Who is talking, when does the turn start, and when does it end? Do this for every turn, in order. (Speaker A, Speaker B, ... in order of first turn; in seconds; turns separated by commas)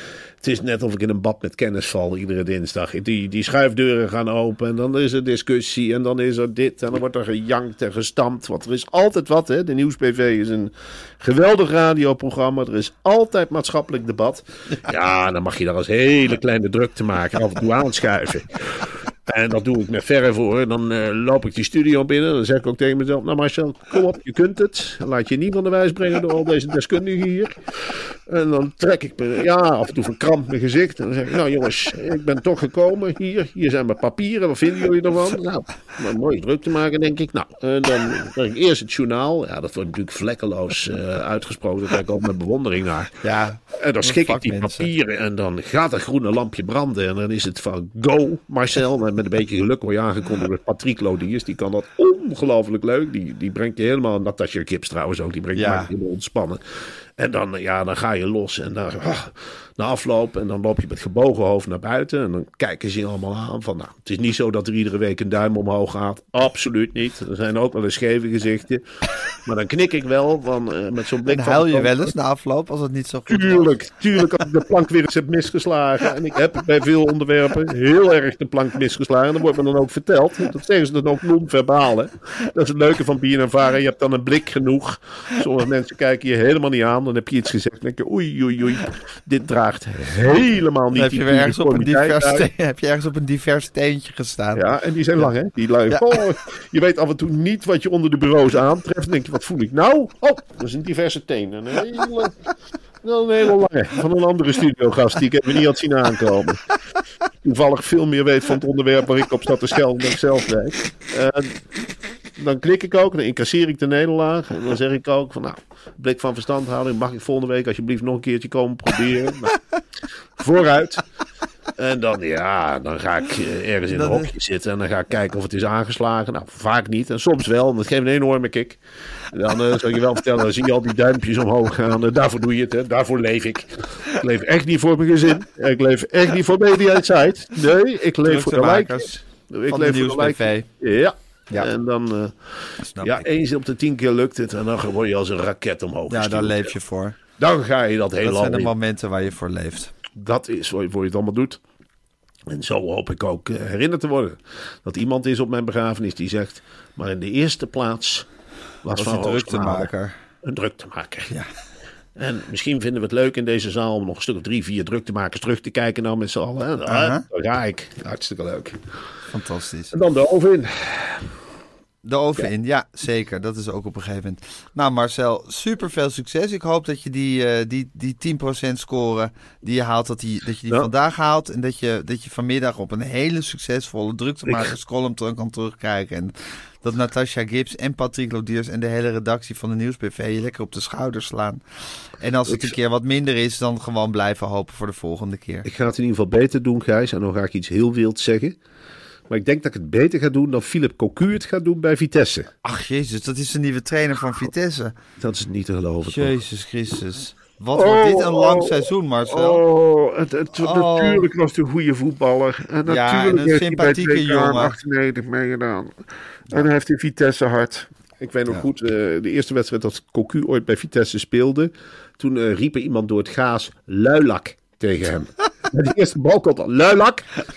Speaker A: 0.4-43.2, Speaker B: 43.2-44.9, Speaker A: 43.7-72.1, Speaker B: 55.5-55.9, Speaker B: 71.3-73.7, Speaker A: 73.3-92.5, Speaker B: 90.9-94.7, Speaker A: 94.5-102.3, Speaker B: 95.9-96.2, Speaker A: 103.0-106.6, Speaker A: 107.4-111.6, Speaker A: 112.3-119.5, Speaker A: 120.4-121.0, Speaker A: 121.8-128.8, Speaker B: 123.9-124.3, Speaker A: 129.3-146.7, Speaker B: 138.2-140.7, Speaker B: 142.8-143.2, Speaker B: 146.1-147.2, Speaker A: 147.4-148.7, Speaker B: 148.2-149.9, Speaker A: 150.1-151.6, Speaker A: 152.5-158.3, Speaker A: 158.8-161.3, Speaker B: 158.9-160.1, Speaker A: 162.1-168.8, Speaker B: 166.9-167.2, Speaker B: 169.2-169.9, Speaker A: 169.9-171.3, Speaker B: 172.0-191.6, Speaker A: 184.4-184.7, Speaker B: 192.2-195.7, Speaker A: 192.5-192.7, Speaker A: 195.6-198.6, Speaker A: 199.3-202.5, Speaker B: 202.6-204.9, Speaker A: 205.2-206.4, Speaker B: 206.0-209.6, Speaker A: 207.7-227.3, Speaker B: 210.6-211.3, Speaker B: 212.8-214.8